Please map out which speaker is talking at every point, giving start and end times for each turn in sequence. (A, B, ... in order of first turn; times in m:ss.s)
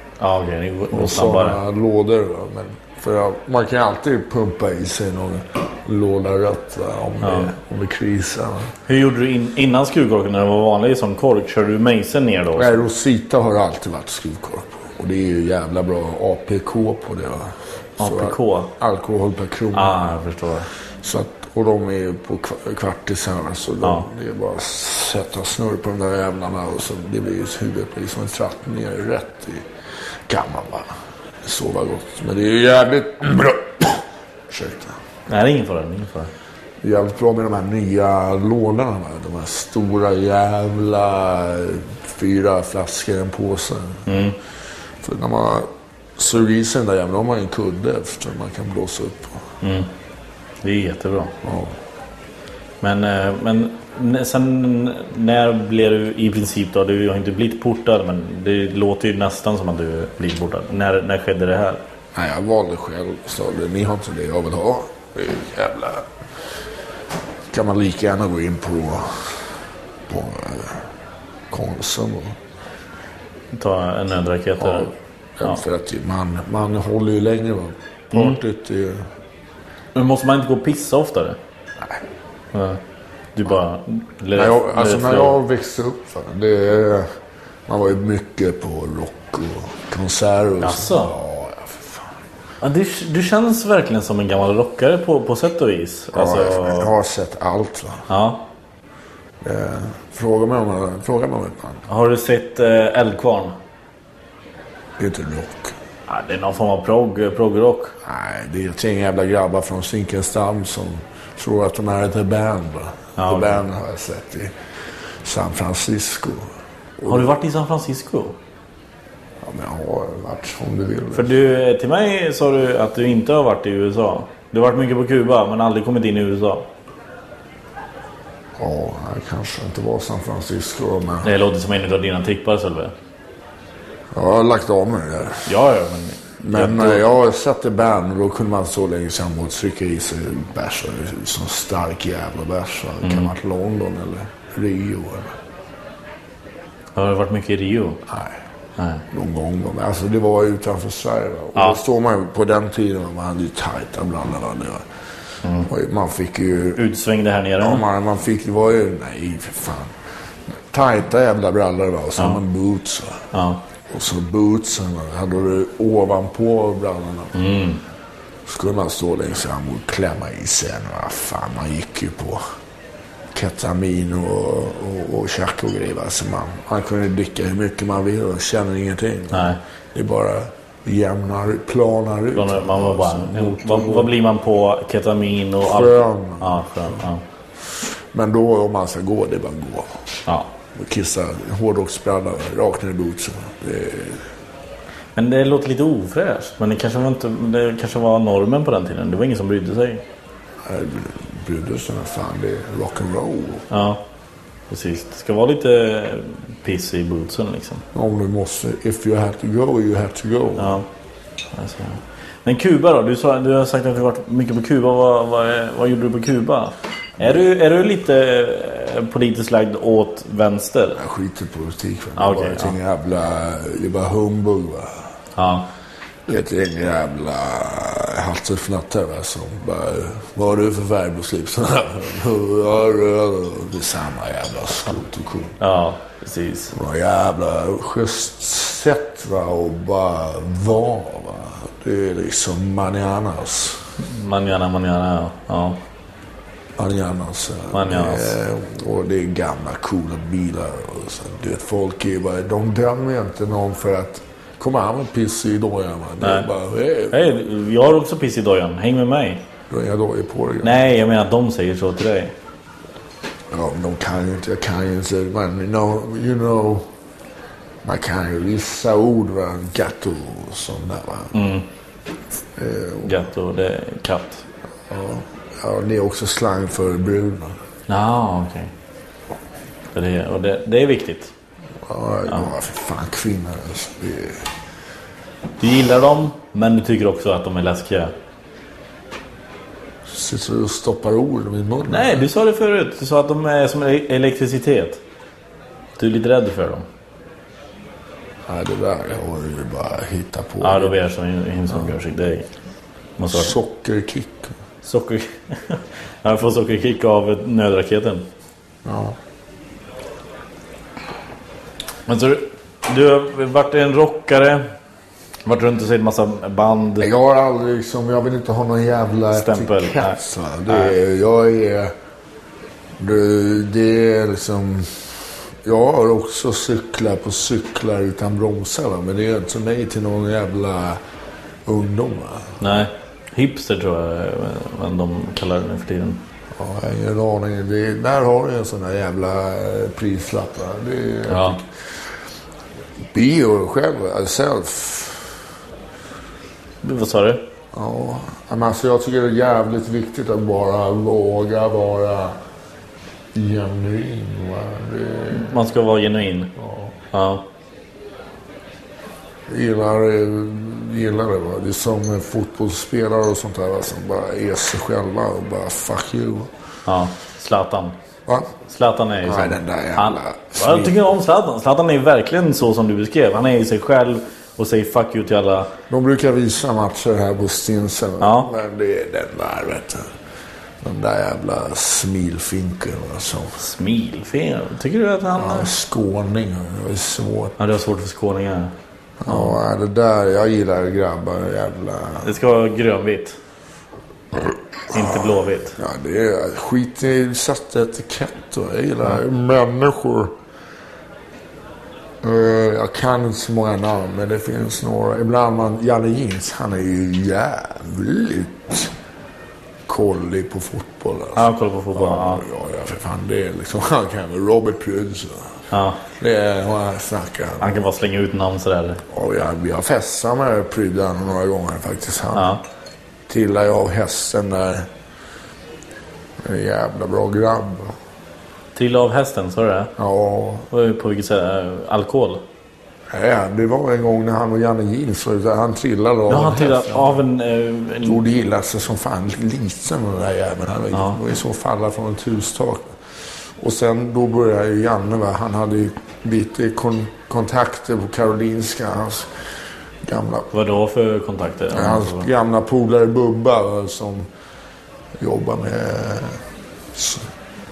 0:00.2-0:01.6 A
0:00.9-0:08.7 B
0:07.2-0:07.5 A
0:08.9-0:12.8 A
0:12.6-0:20.0 B
0:18.0-0:18.7 A
0:19.7-0:20.7 A
0:21.0-0:29.7 B
0:30.3-0:35.0 B
0:35.3-0:36.3 A
0:36.8-0:44.3 B
0:44.1-0:44.4 A
0:45.0-0:49.4 B
0:49.6-0:49.9 A
0:50.6-0:51.4 A
0:51.4-0:51.8 B
0:52.8-1:01.8 A
1:02.1-1:06.1 B
1:07.5-1:09.5 B
1:10.1-1:10.9 B
1:11.5-1:12.4 B
1:13.5-1:14.9 A
1:14.6-1:19.1 B
1:18.1-1:18.4 A
1:20.0-1:21.4 A
1:22.5-1:22.8 A
1:23.4-1:25.4 A
1:24.3-1:27.1 B
1:27.7-1:32.1 B
1:30.6-1:31.2 A
1:32.6-1:36.9 A
1:36.1-1:38.1 B
1:38.1-1:38.4 A
1:39.4-1:41.8 B
1:41.9-1:43.6 A
1:45.0-1:45.8 B
1:46.1-1:48.0 A
1:48.0-1:54.5 B
1:53.2-1:53.6 A
1:55.2-1:57.3 B
1:57.0-1:58.4 A
1:59.4-2:01.4 B
2:01.1-2:06.7 A
2:08.6-2:11.3 B
2:11.2-2:12.9 A
2:14.1-2:15.6 B
2:15.5-2:17.1 A
2:16.4-2:25.4 B
2:23.0-2:23.3 A
2:27.0-2:28.0 A
2:28.1-2:28.4 B
2:28.8-2:29.0 A
2:29.1-2:34.9 B
2:35.6-2:36.8 B
2:36.8-2:37.8 A
2:37.6-2:40.0 B
2:40.7-2:43.3 B
2:43.3-2:43.6 A
2:43.9-2:47.4 B
2:47.4-2:47.8 A
2:48.5-2:52.4 B
2:53.3-3:04.1 B
2:59.3-2:59.6 A
3:02.3-3:07.2 A
3:05.6-3:07.0 B
3:07.7-3:10.2 B
3:10.7-3:14.3 B
3:15.2-3:20.0 A
3:20.6-3:23.7 B
3:23.7-3:24.0 A
3:24.7-3:27.8 A
3:27.9-3:30.8 B
3:30.6-3:30.9 A
3:31.5-3:41.0 A
3:40.9-3:45.1 B
3:42.2-3:42.8 A
3:45.4-3:45.7 A
3:46.3-3:55.6 B
3:55.6-3:56.7 A
3:56.7-4:03.8 B
4:04.0-4:05.8 A
4:06.8-4:17.2 B
4:07.7-4:08.4 A
4:16.2-4:16.5 A
4:17.1-4:19.4 A
4:19.7-4:20.8 B
4:20.6-4:22.3 A
4:23.5-4:26.9 B
4:27.8-4:31.4 B
4:31.3-4:31.7 A
4:32.6-4:33.2 B
4:33.0-4:34.4 A
4:34.9-4:37.6 B
4:37.9-4:38.7 A
4:39.9-4:41.3 A
4:41.8-4:44.5 B
4:45.6-4:48.1 A
4:50.1-4:52.3 B
4:51.9-4:55.0 A
4:56.0-4:56.9 A
4:58.5-5:01.0 B
5:00.6-5:02.5 A
5:03.2-5:03.6 A
5:03.3-5:04.5 B
5:04.8-5:08.3 A
5:08.8-5:09.2 B
5:12.1-5:14.7 A
5:15.5-5:17.1 A
5:17.0-5:21.9 B
5:19.3-5:20.9 A
5:23.0-5:25.0 B
5:25.6-5:31.0 B
5:31.7-5:32.7 B
5:32.6-5:36.2 A
5:36.5-5:41.8 B
5:41.3-5:41.6 A
5:43.1-5:45.4 B
5:46.8-5:47.5 A
5:47.7-5:52.4 B
5:53.3-5:55.6 B
5:55.3-5:56.5 A
5:56.6-5:56.9 B
5:57.1-5:57.4 A
5:59.5-6:06.5 B
6:06.9-6:08.0 A
6:08.3-6:08.5 B
6:08.7-6:15.7 A
6:09.2-6:11.0 B
6:15.9-6:20.2 B
6:18.2-6:18.5 A
6:20.8-6:23.6 B
6:23.6-6:25.7 A
6:25.3-6:27.6 B
6:27.6-6:28.7 A
6:29.2-6:32.4 B
6:29.3-6:29.6 A
6:32.2-6:33.4 A
6:34.4-6:40.4 B
6:34.9-6:35.8 A
6:42.2-6:48.9 B
6:49.9-6:55.6 B
6:51.4-6:52.4 A
6:55.7-6:56.0 A
6:56.2-6:57.8 B
6:57.6-6:59.0 A
6:59.1-7:02.6 B
7:02.3-7:02.6 A
7:03.3-7:04.9 B
7:06.4-7:08.0 B
7:08.8-7:09.9 A
7:10.0-7:10.7 B
7:10.7-7:12.4 A
7:13.1-7:17.2 B
7:16.3-7:18.2 A
7:18.0-7:29.3 B
7:20.9-7:21.2 A
7:30.0-7:30.5 B
7:30.5-7:32.3 A
7:31.7-7:34.3 B
7:35.2-7:37.3 B